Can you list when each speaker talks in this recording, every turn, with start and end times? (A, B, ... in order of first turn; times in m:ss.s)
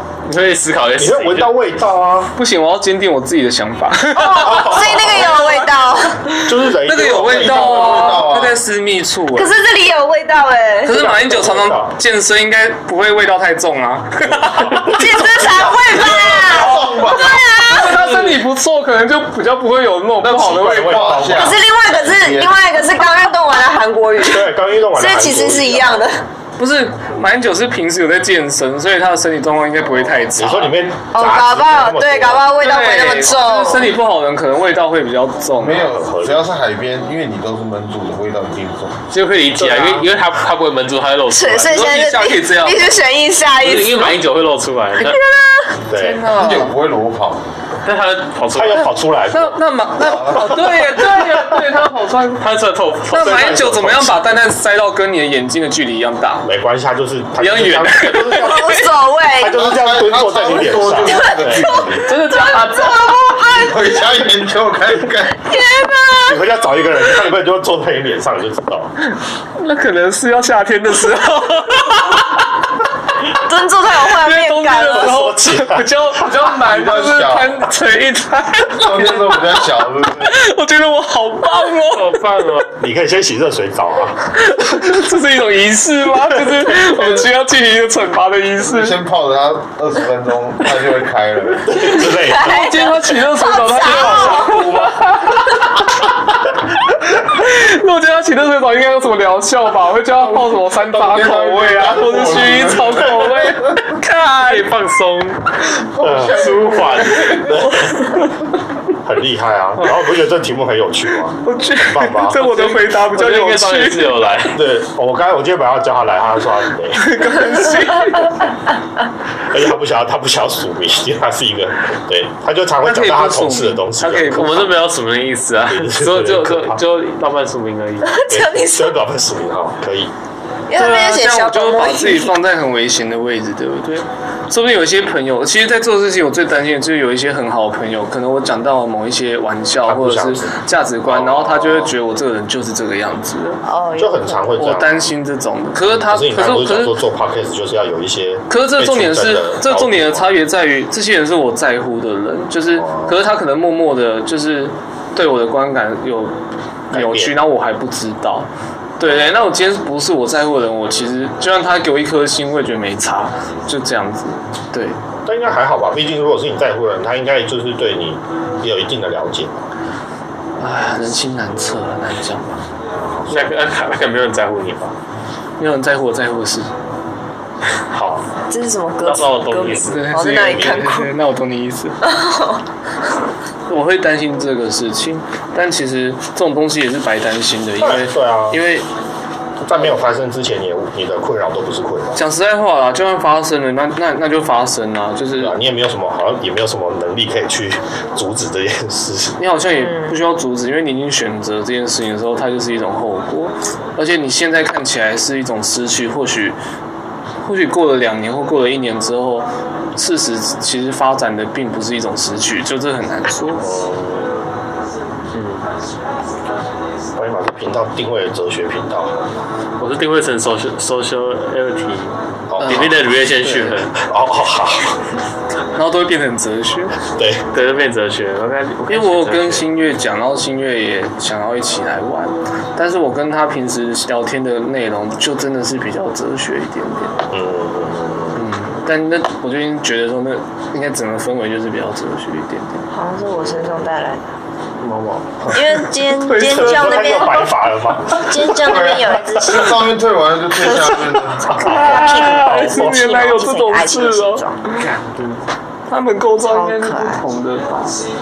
0:00.2-0:01.5 A
0:01.0-0:02.3 B
0:02.4-0:09.5 C
0:04.1-0:06.3 D
0:04.4-0:05.2 B
0:06.4-0:08.2 B
0:07.2-0:08.6 E
0:09.3-0:11.0 D
0:10.8-0:21.4 C
0:10.9-0:12.0 B
0:14.4-0:15.3 B
0:14.8-0:18.0 D
0:15.6-0:17.6 E
0:20.2-0:22.6 E
0:20.5-0:21.6 B
0:21.3-0:26.2 D
0:24.2-0:26.1 B
0:26.6-0:30.8 C
0:30.3-0:32.6 B
0:31.1-0:33.9 D
0:32.6-0:36.0 C
0:35.6-0:39.0 E
0:35.9-0:36.5 B
0:39.1-0:41.9 A
0:39.6-0:40.1 B
0:41.3-0:44.2 D
0:41.7-0:42.9 C
0:43.6-0:45.2 A
0:45.0-0:45.8 D
0:45.9-0:46.2 B
0:45.9-0:46.7 C
0:46.3-0:47.4 E
0:47.8-0:48.9 A
0:48.5-0:49.6 B
0:49.3-0:52.4 C
0:50.0-0:50.4 E
0:50.1-0:51.4 B
0:52.4-0:53.6 A
0:53.1-0:56.5 C
0:53.2-0:54.2 B
0:56.4-0:58.8 B
0:57.4-0:58.9 C
0:58.3-0:59.6 D
0:59.4-1:01.8 B
0:59.4-1:02.1 E
1:01.1-1:03.8 D
1:02.0-1:03.3 C
1:03.4-1:05.5 E
1:05.4-1:06.4 D
1:06.2-1:08.9 B
1:09.1-1:12.4 C
1:13.3-1:15.1 D
1:14.1-1:19.6 C
1:14.8-1:16.1 B
1:16.4-1:17.6 E
1:18.7-1:20.4 E
1:20.2-1:22.2 C
1:21.9-1:22.8 A
1:22.8-1:24.2 B
1:24.3-1:29.0 C
1:28.6-1:31.9 E
1:31.7-1:32.8 B
1:32.2-1:34.9 D
1:32.2-1:36.0 C
1:37.2-1:44.7 C
1:40.3-1:43.8 E
1:44.4-1:45.5 A
1:45.9-1:47.6 E
1:46.0-1:46.5 B
1:46.2-1:47.5 A
1:47.2-1:48.0 B
1:47.8-1:48.3 C
1:49.0-1:52.4 B
1:51.4-1:54.2 C
1:52.3-1:54.6 A
1:54.5-1:57.2 B
1:57.0-1:58.5 C
1:59.4-2:04.7 B
2:02.8-2:04.7 C
2:04.3-2:08.1 A
2:05.7-2:06.8 B
2:08.0-2:08.9 D
2:08.3-2:10.1 B
2:10.7-2:12.3 D
2:10.8-2:23.6 C
2:19.8-2:22.0 B
2:23.7-2:24.6 D
2:24.0-2:25.1 B
2:24.6-2:27.0 C
2:25.9-2:30.3 B
2:28.5-2:36.3 C
2:32.7-2:33.2 B
2:36.9-2:37.4 B
2:36.9-2:38.5 C
2:39.0-2:45.0 C
2:45.3-2:49.7 B
2:50.6-2:52.6 C
2:53.1-2:53.5 B
2:53.3-2:54.9 A
2:55.6-2:56.7 C
2:57.9-2:58.3 B
2:58.5-3:01.1 D
2:59.0-3:00.2 A
2:59.8-3:02.1 C
3:02.0-3:02.6 D
3:03.7-3:08.9 C
3:07.8-3:08.6 B
3:09.6-3:12.2 B
3:12.2-3:15.6 C
3:15.4-3:19.4 B
3:19.4-3:26.6 C
3:19.8-3:20.1 D
3:27.4-3:33.6 C
3:33.6-3:34.3 A
3:35.3-3:35.7 A
3:37.2-3:39.4 B
3:39.8-3:44.0 A
3:42.5-3:45.0 B
3:42.6-3:43.0 C
3:45.7-3:47.0 C
3:47.1-3:47.5 B
3:47.5-3:49.7 A
3:48.9-3:57.2 C
3:57.3-3:58.4 B
3:58.3-4:02.9 C
4:02.9-4:04.2 D
4:04.8-4:05.4 A
4:05.5-4:07.5 D
4:06.1-4:07.5 C
4:06.4-4:08.8 B
4:08.1-4:09.8 D
4:08.6-4:11.6 E
4:11.4-4:12.9 B
4:11.5-4:14.6 D
4:11.5-4:14.9 C
4:14.8-4:15.4 A
4:15.9-4:18.0 C
4:16.4-4:17.2 D